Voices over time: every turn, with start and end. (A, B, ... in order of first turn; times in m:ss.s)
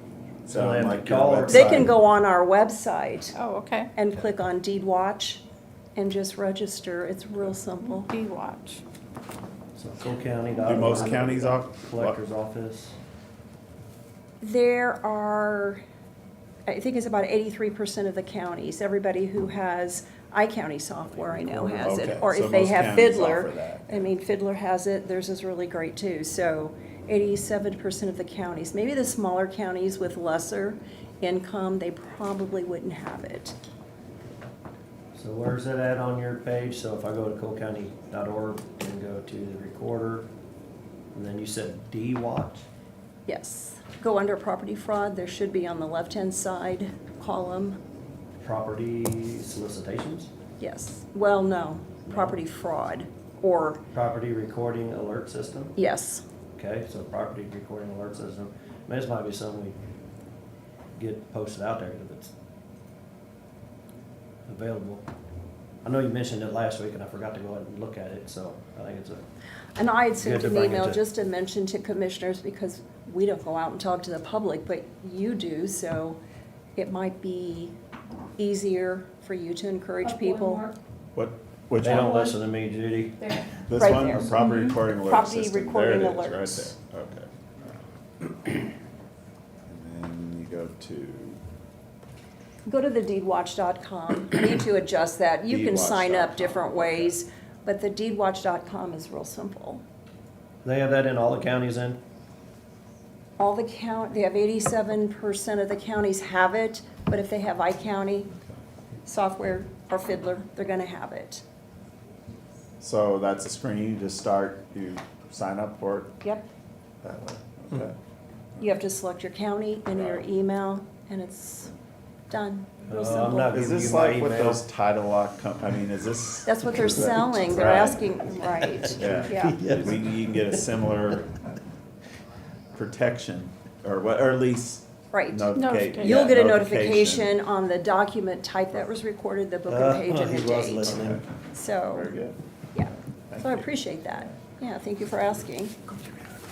0:00.5-0:01.9 A
0:00.5-0:01.9 B
0:01.5-0:03.4 C
0:03.4-0:03.9 D
0:03.9-0:05.4 C
0:06.0-0:08.1 C
0:07.8-0:08.8 D
0:09.8-0:12.9 B
0:10.6-0:12.2 A
0:14.4-0:15.8 C
0:16.7-0:33.6 C
0:21.3-0:21.9 B
0:21.8-0:24.1 A
0:35.2-0:40.3 B
0:41.1-0:42.6 B
0:43.3-0:47.8 C
0:48.4-0:50.3 B
0:50.6-0:53.8 C
0:53.9-0:55.8 B
0:55.8-0:56.2 C
0:56.6-0:59.8 B
1:01.0-1:02.3 B
1:04.5-1:05.1 B
1:05.8-1:09.2 B
1:09.8-1:16.2 C
1:10.2-1:11.0 B
1:16.8-1:17.7 C
1:18.4-1:20.6 C
1:20.0-1:20.8 D
1:21.1-1:22.2 A
1:21.8-1:23.3 B
1:21.8-1:22.4 D
1:23.2-1:23.6 D
1:23.7-1:27.7 A
1:23.8-1:24.4 C
1:24.4-1:24.8 D
1:24.9-1:26.7 C
1:29.7-1:31.4 A
1:32.7-1:39.8 C
1:35.5-1:37.2 A
1:40.6-1:42.0 B
1:43.4-1:48.3 C
1:49.0-1:51.4 C
1:52.8-1:56.2 A
1:57.0-1:58.0 A
1:58.6-2:01.7 C
2:02.3-2:03.6 C
2:02.9-2:04.6 B
2:03.5-2:08.0 A
2:06.4-2:09.6 C
2:09.0-2:10.0 B
2:09.0-2:11.4 A
2:12.7-2:17.3 A
2:15.1-2:22.1 C
2:15.5-2:16.2 D
2:19.7-2:21.2 B
2:21.9-2:22.4 A
2:22.7-2:25.8 C
2:23.3-2:23.7 A